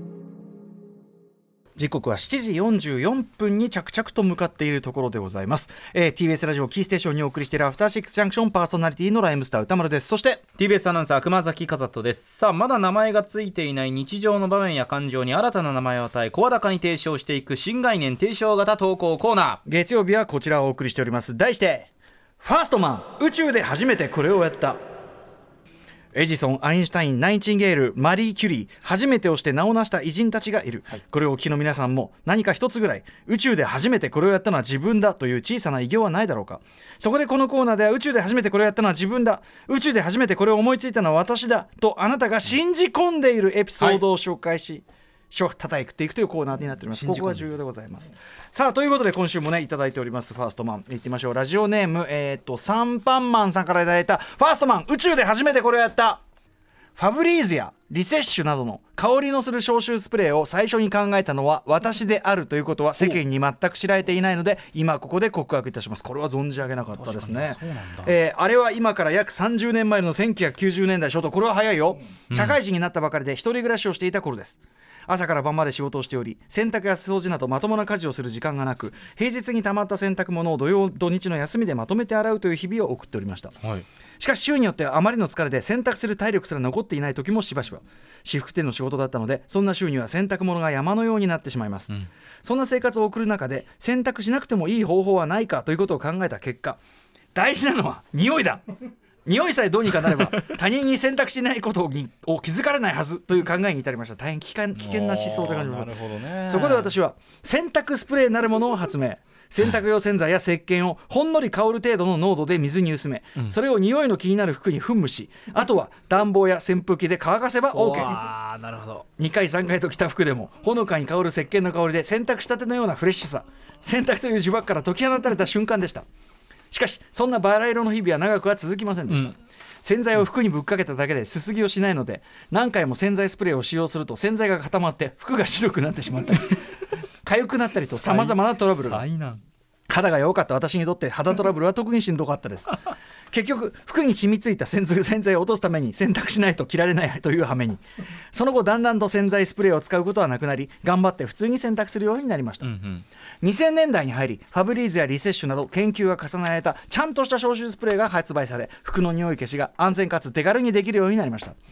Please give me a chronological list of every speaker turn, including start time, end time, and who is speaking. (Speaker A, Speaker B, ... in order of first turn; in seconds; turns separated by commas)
Speaker A: 1.8-10.4, Speaker B: 10.6-19.6, Speaker A: 19.6-21.9, Speaker A: 22.4-24.8, Speaker A: 26.1-56.2, Speaker B: 46.9-47.5, Speaker A: 57.0-83.5, Speaker B: 63.0-63.2, Speaker B: 67.0-68.2, Speaker B: 72.3-72.6, Speaker B: 83.6-83.8, Speaker A: 84.2-96.8, Speaker A: 97.3-98.6, Speaker A: 99.2-118.2, Speaker B: 104.7-106.9, Speaker B: 117.7-119.0, Speaker A: 119.2-126.0, Speaker A: 126.7-136.6, Speaker B: 129.1-129.3, Speaker A: 137.2-139.0, Speaker B: 137.9-139.4, Speaker A: 139.9-142.8, Speaker A: 143.3-147.8, Speaker A: 148.3-152.7, Speaker B: 152.6-153.0, Speaker A: 153.4-161.6